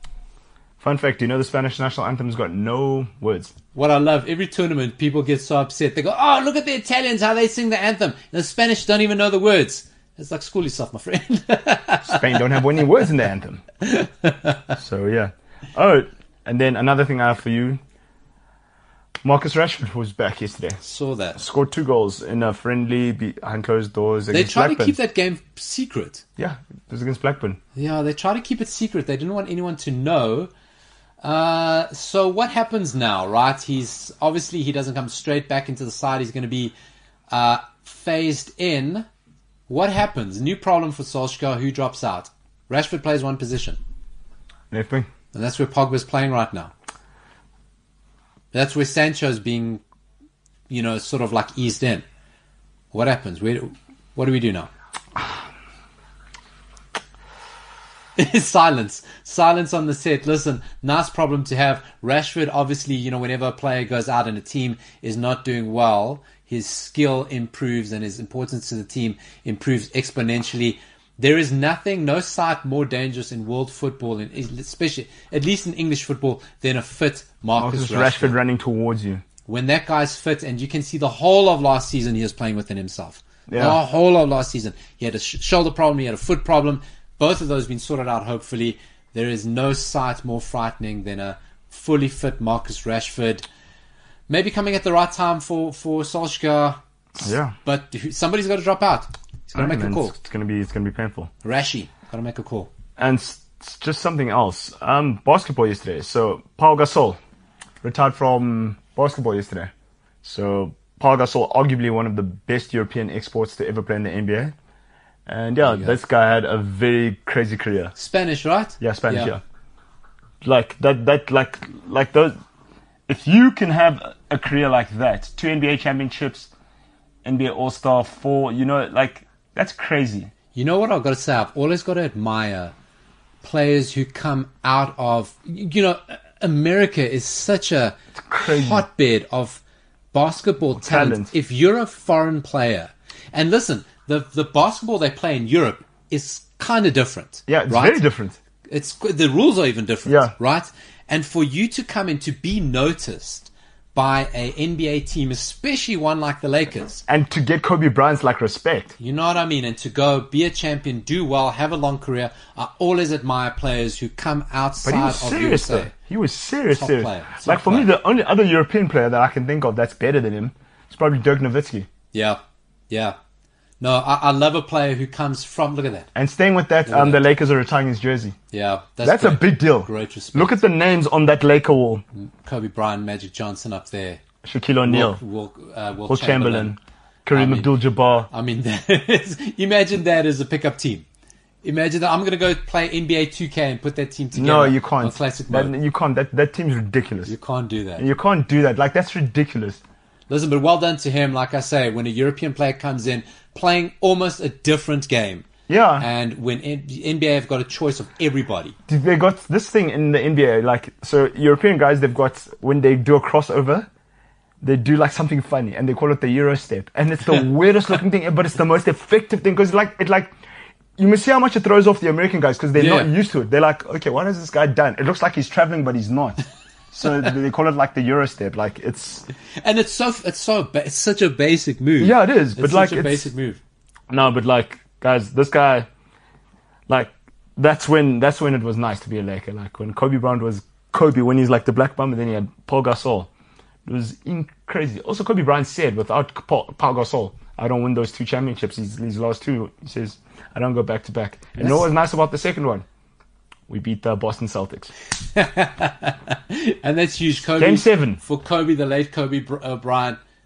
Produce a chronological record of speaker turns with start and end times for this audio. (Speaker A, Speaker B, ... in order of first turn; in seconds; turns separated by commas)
Speaker A: 0.8-3.5, Speaker B: 3.8-12.6, Speaker A: 12.1-13.6, Speaker B: 13.8-14.8, Speaker A: 14.8-17.8, Speaker A: 19.2-20.8, Speaker B: 20.8-21.4, Speaker A: 21.4-25.0, Speaker B: 24.3-26.2, Speaker A: 26.4-27.6, Speaker B: 27.8-30.5, Speaker B: 31.2-36.7, Speaker B: 37.3-39.1, Speaker B: 39.7-43.8, Speaker A: 44.7-45.1, Speaker B: 45.3-46.7, Speaker B: 48.5-49.8, Speaker B: 50.7-52.0, Speaker B: 52.9-54.7, Speaker B: 58.2-78.4, Speaker A: 77.6-79.2, Speaker B: 79.5-93.4, Speaker A: 83.5-83.8, Speaker B: 94.3-100.2, Speaker A: 97.2-97.5, Speaker A: 99.5-101.3, Speaker B: 101.4-102.7, Speaker A: 103.0-107.2, Speaker A: 107.8-109.7, Speaker A: 110.2-114.5, Speaker A: 115.3-117.9, Speaker B: 115.6-116.0, Speaker B: 118.0-119.3, Speaker A: 118.8-119.4, Speaker A: 120.4-122.4, Speaker A: 123.1-126.5, Speaker A: 127.2-130.3, Speaker B: 130.6-132.7, Speaker B: 133.4-139.6, Speaker A: 138.2-138.9, Speaker B: 140.1-148.0, Speaker A: 140.8-141.3, Speaker A: 147.5-148.4, Speaker B: 148.7-157.0, Speaker A: 150.1-150.3, Speaker A: 157.1-158.9, Speaker B: 159.0-165.9, Speaker A: 164.8-171.9, Speaker B: 166.7-167.9, Speaker B: 172.1-173.2, Speaker B: 173.8-176.1, Speaker A: 176.2-178.4, Speaker B: 176.9-177.2, Speaker B: 178.5-180.6, Speaker A: 179.0-182.0, Speaker B: 182.2-184.2, Speaker A: 184.4-185.2, Speaker B: 184.9-186.8, Speaker A: 186.1-188.3, Speaker B: 187.3-187.8, Speaker B: 188.3-191.1, Speaker B: 191.6-195.7, Speaker A: 194.3-197.3, Speaker B: 197.3-198.1, Speaker A: 198.0-199.8, Speaker B: 200.3-205.4, Speaker A: 205.7-206.1, Speaker B: 206.0-208.8, Speaker A: 208.9-213.9, Speaker A: 214.6-220.3, Speaker A: 221.0-226.4, Speaker B: 222.8-223.1, Speaker A: 226.9-229.2, Speaker B: 229.6-233.6, Speaker A: 232.0-233.3, Speaker A: 234.1-235.9, Speaker A: 236.9-243.3, Speaker A: 243.9-252.9, Speaker B: 251.6-251.9, Speaker A: 253.7-254.9, Speaker B: 255.3-260.2, Speaker A: 257.6-258.2